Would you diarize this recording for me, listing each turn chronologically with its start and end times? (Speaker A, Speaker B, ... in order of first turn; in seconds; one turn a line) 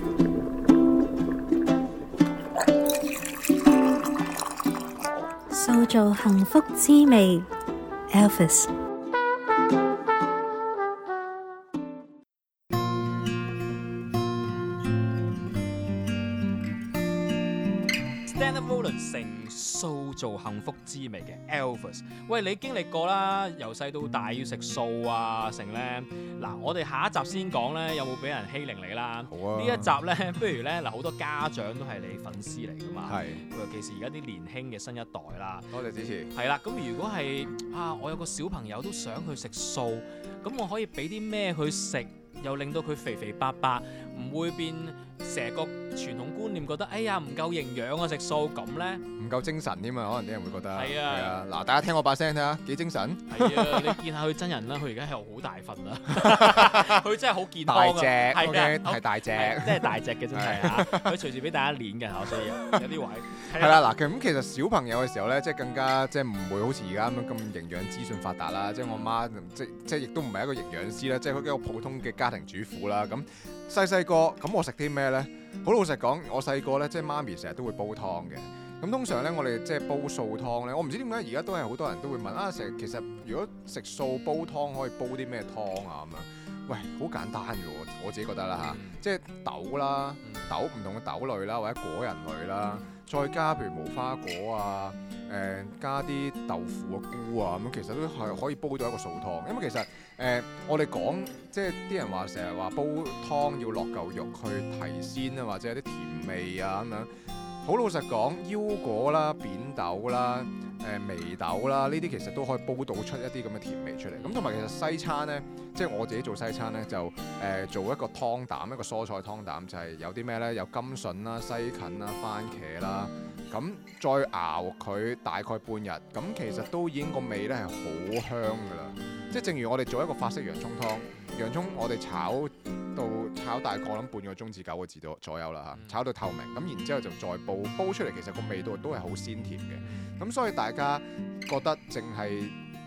Speaker A: 5.5-7.5
Speaker A: 8.1-8.7
Speaker B: 18.2-35.7
Speaker C: 29.3-30.0
Speaker C: 33.0-33.4
Speaker C: 35.7-36.3
Speaker B: 36.3-49.0
Speaker C: 49.2-54.0
Speaker B: 50.6-51.4
Speaker B: 53.3-63.8
Speaker C: 56.1-57.0
Speaker C: 57.6-61.2
Speaker C: 63.5-107.1
Speaker B: 88.6-89.0
Speaker B: 90.2-90.5
Speaker C: 107.6-142.6
Speaker B: 114.2-114.6
Speaker B: 135.7-136.0
Speaker B: 139.8-140.1